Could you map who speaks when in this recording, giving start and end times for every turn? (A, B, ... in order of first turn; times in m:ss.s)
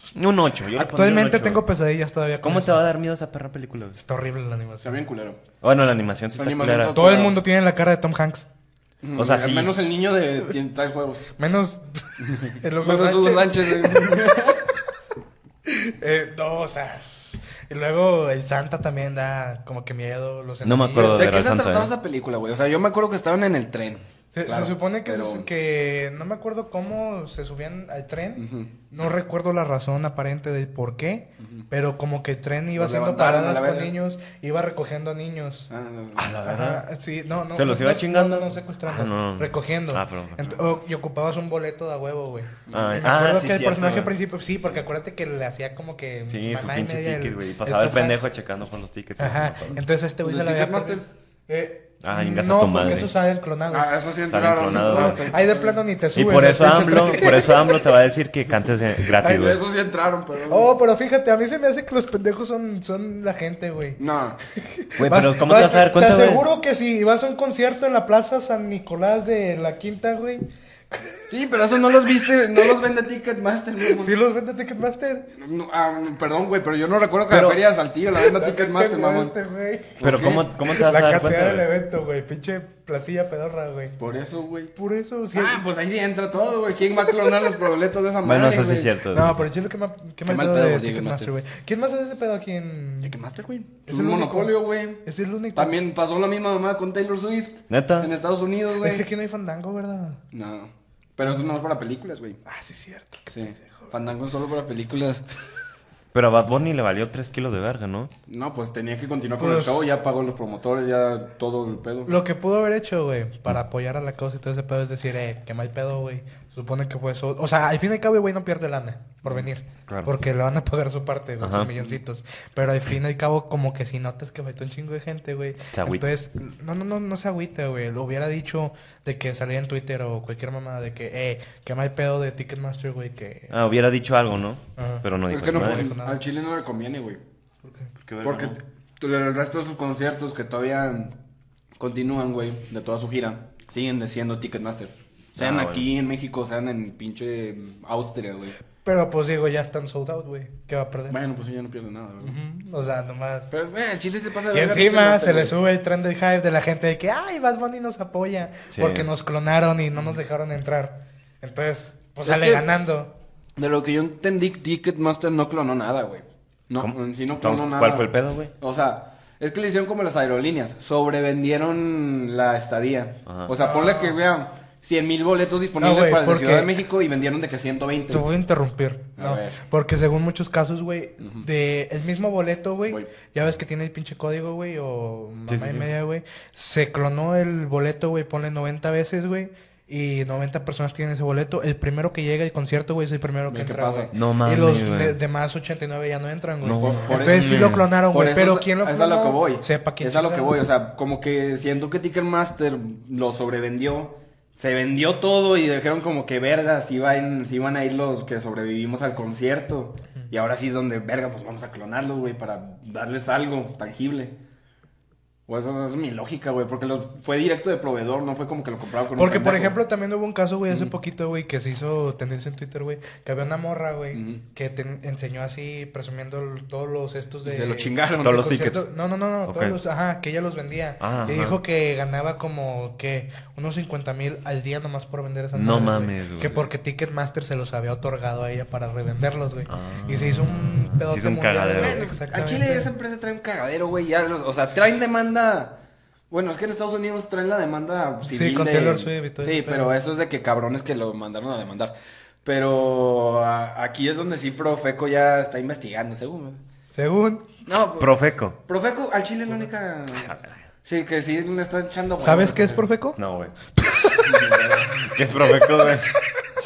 0:00.1-0:01.7 A
0:00.7-0:02.8 B
0:02.4-0:04.0 A
0:04.0-0:05.0 B
0:04.8-0:05.4 C
0:05.6-0:07.0 A
0:06.4-0:07.4 C
0:06.9-0:08.5 B
0:09.0-0:11.2 C
0:09.2-0:09.8 A
0:11.4-0:14.4 B
0:12.3-0:14.6 C
0:15.7-0:17.0 B
0:17.7-0:21.4 B
0:20.6-0:21.9 A
0:21.0-0:25.5 C
0:24.3-0:35.7 B
0:28.4-0:28.7 C
0:31.4-0:31.7 C
0:32.8-0:33.9 C
0:35.7-0:36.3 C
0:36.2-0:36.8 A
0:36.4-0:48.2 B
0:37.5-0:40.6 A
0:42.7-0:43.0 C
0:42.7-0:44.2 A
0:46.3-0:49.8 A
0:49.2-0:54.0 B
0:50.2-0:51.1 C
0:52.0-0:53.1 A
0:53.7-0:55.8 C
0:54.3-0:55.2 A
0:54.7-0:57.9 B
0:56.1-0:59.6 A
0:59.2-1:00.7 C
1:00.5-1:04.0 B
1:04.0-1:04.4 C
1:04.6-1:11.3 B
1:05.0-1:06.5 A
1:11.3-1:14.2 C
1:13.9-1:15.3 B
1:15.4-1:19.3 C
1:17.3-1:17.6 A
1:18.2-1:24.0 B
1:20.0-1:20.5 C
1:20.0-1:21.7 A
1:24.0-1:24.7 C
1:24.8-1:25.6 B
1:25.3-1:29.0 C
1:27.2-1:27.5 B
1:28.2-1:29.4 A
1:29.1-1:33.2 B
1:30.2-1:31.3 C
1:33.0-1:39.1 C
1:33.9-1:35.8 B
1:37.7-1:38.1 A
1:38.8-1:40.2 B
1:40.3-1:42.4 C
1:42.5-1:43.9 B
1:43.3-1:45.3 C
1:46.1-1:48.1 A
1:48.3-1:52.1 C
1:49.4-1:49.9 B
1:52.1-2:13.6 B
1:59.9-2:00.1 A
2:01.4-2:01.7 A
2:05.7-2:06.1 A
2:13.5-2:16.0 A
2:14.8-2:16.2 B
2:15.3-2:17.2 C
2:17.6-2:17.9 B
2:18.0-2:18.6 A
2:18.2-2:21.1 C
2:21.8-2:28.6 C
2:25.4-2:25.9 A
2:28.8-2:31.2 B
2:31.1-2:32.4 C
2:32.2-2:33.6 B
2:33.5-2:35.6 C
2:34.5-2:43.1 B
2:38.7-2:39.1 A
2:42.2-2:42.7 C
2:43.6-2:58.3 C
2:46.8-2:48.5 A
2:53.3-2:53.6 A
2:53.6-2:54.2 B
2:55.8-2:56.7 B
2:58.1-3:20.6 B
2:59.2-2:59.6 C
3:05.5-3:05.9 A
3:13.5-3:14.1 C
3:14.1-3:15.2 A
3:16.6-3:17.9 A
3:16.8-3:34.4 C
3:35.5-3:39.8 C
3:39.2-4:02.9 B
3:40.7-3:40.9 C
3:44.1-3:44.4 C
3:47.4-3:48.5 C
3:48.2-3:48.9 A
3:49.4-3:49.8 A
3:51.0-3:51.6 A
3:55.5-3:56.6 A
3:59.7-4:02.0 A
4:01.7-4:16.6 C
4:08.2-4:09.9 B
4:17.0-4:17.5 B
4:17.7-4:20.3 C
4:18.0-4:18.6 A
4:20.2-4:20.6 A
4:20.8-4:22.9 C
4:22.2-4:23.2 B
4:23.2-4:23.5 A
4:23.8-4:24.8 B
4:24.2-4:25.1 C
4:25.0-4:26.1 A
4:25.6-4:26.2 B